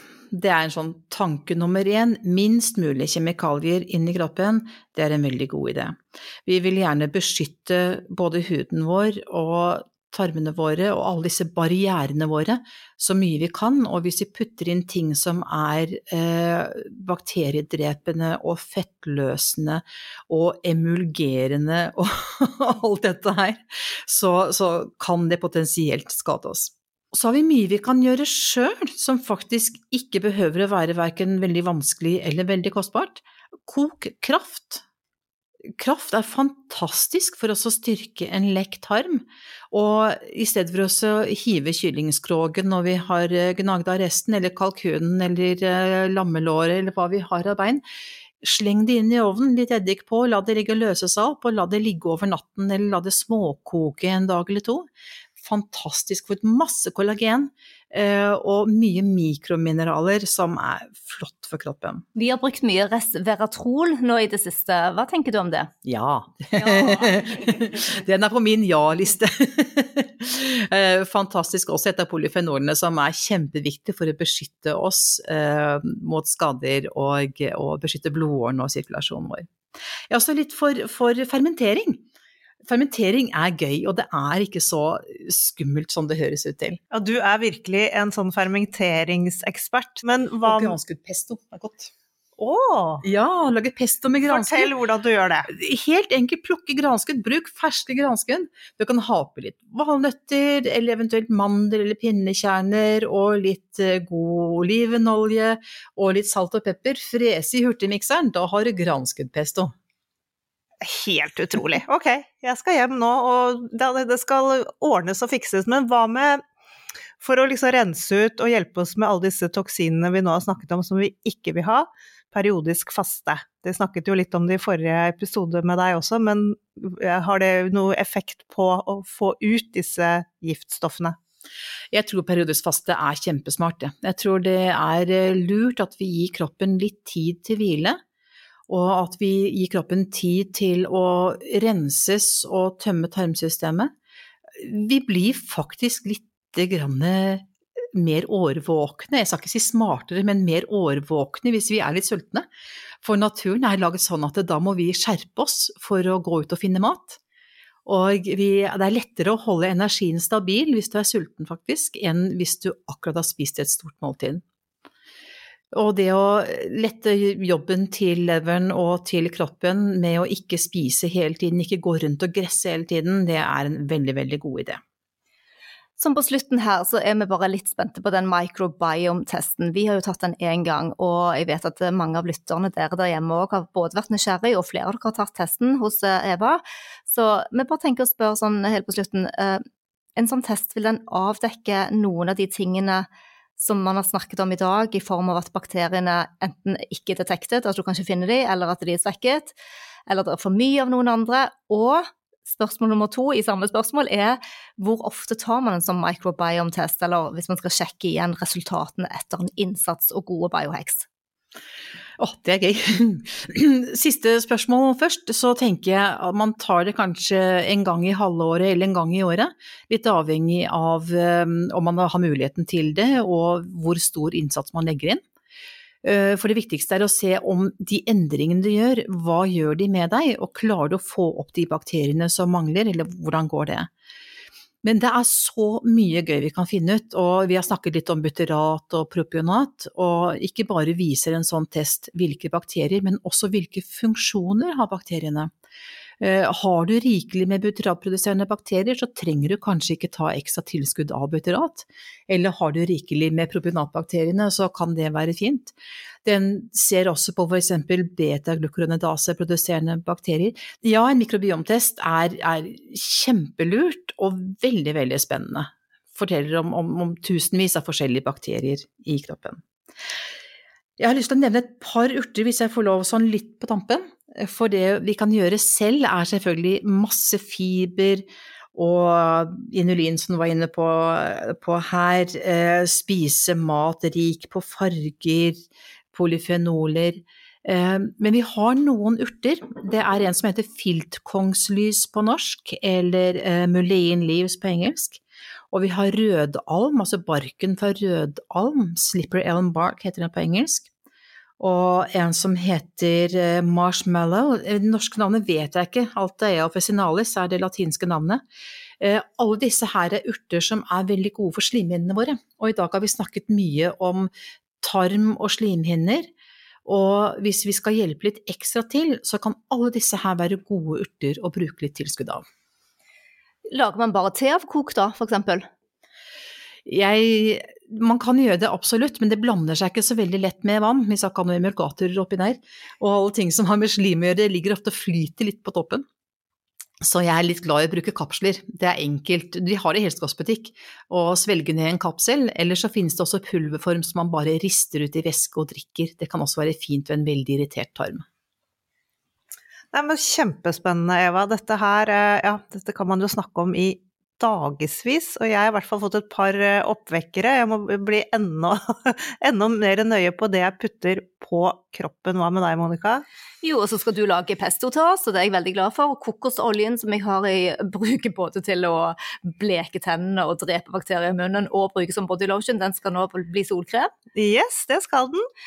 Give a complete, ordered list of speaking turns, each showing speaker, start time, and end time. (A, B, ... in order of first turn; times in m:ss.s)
0:00.3-0:34.8 A
0:35.8-0:47.8 A
0:48.4-0:54.9 A
0:55.4-1:02.0 A
1:02.2-1:05.7 B
1:05.8-1:19.5 A
1:20.1-1:22.0 A
1:22.6-1:26.8 A
1:26.9-1:30.8 C
1:30.4-1:31.9 A
1:32.4-1:33.0 C
1:33.0-1:34.7 A
1:34.2-1:35.5 C
1:35.5-1:49.7 A
1:50.8-1:56.4 C
1:57.2-2:11.2 C
2:11.9-2:18.0 A
2:18.7-2:23.9 A
2:24.5-2:32.5 A
2:33.0-2:37.2 A
2:37.8-2:44.4 A
2:45.7-2:54.8 A
2:56.0-3:09.6 B
3:10.2-3:13.1 B
3:13.6-3:19.5 B
3:20.1-3:31.0 B
3:32.2-3:45.2 A
3:46.0-3:53.9 A
3:54.8-4:05.5 A
4:06.2-4:29.6 A
4:31.0-5:00.9 A
5:01.6-5:08.4 A
5:09.0-5:14.3 A
5:14.8-5:16.3 A
5:16.8-5:22.4 A
5:23.7-5:25.6 B
5:26.8-5:36.0 A
5:37.0-5:48.2 A
5:49.9-6:03.2 C
6:03.6-6:14.1 B
6:14.3-6:15.5 C